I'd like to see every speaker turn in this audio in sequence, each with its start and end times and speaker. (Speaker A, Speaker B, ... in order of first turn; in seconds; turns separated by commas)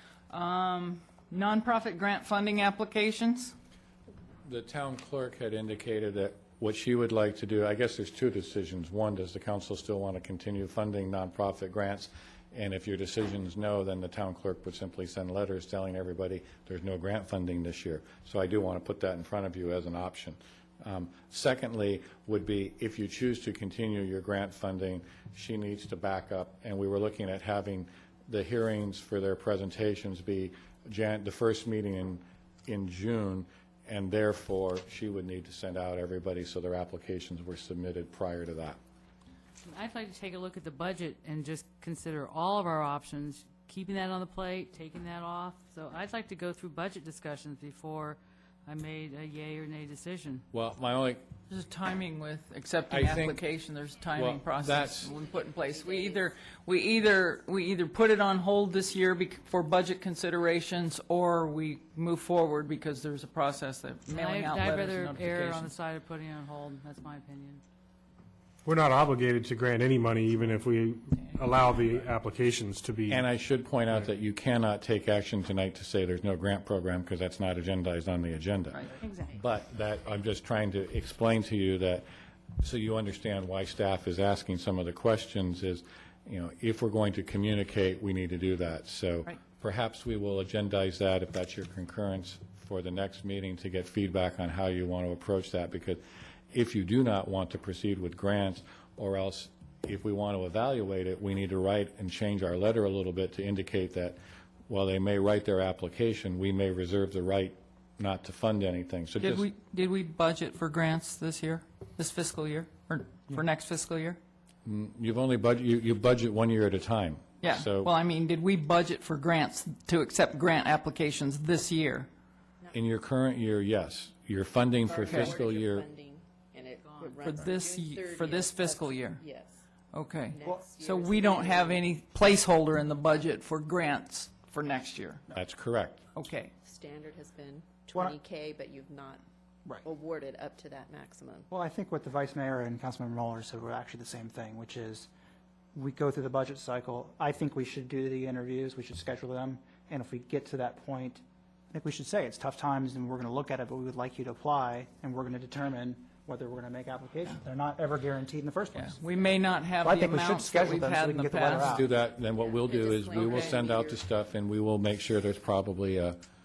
Speaker A: 0.3-3.5, Speaker B: 4.4-38.8, Speaker C: 39.7-50.4, Speaker B: 50.5-51.2, Speaker A: 51.5-65.8, Speaker B: 52.9-53.4, Speaker B: 54.2-55.1, Speaker D: 55.1-56.5, Speaker C: 64.1-67.6, Speaker E: 68.7-73.2, Speaker B: 73.1-82.1, Speaker C: 79.0-79.4, Speaker B: 82.6-109.5, Speaker A: 109.2-114.2, Speaker B: 114.7-117.9, Speaker A: 117.4-122.1, Speaker B: 122.7-125.8, Speaker D: 124.8-129.7, Speaker A: 125.0-125.4, Speaker C: 126.8-127.2, Speaker A: 127.2-129.2, Speaker A: 129.9-135.2, Speaker D: 130.3-131.9, Speaker B: 135.3-136.0, Speaker A: 136.2-136.5, Speaker D: 136.6-139.2, Speaker D: 139.8-141.5, Speaker F: 141.5-145.1, Speaker F: 145.8-159.0, Speaker A: 158.8-161.8, Speaker F: 159.8-161.9, Speaker B: 161.5-166.2, Speaker D: 162.0-164.1, Speaker A: 163.2-163.7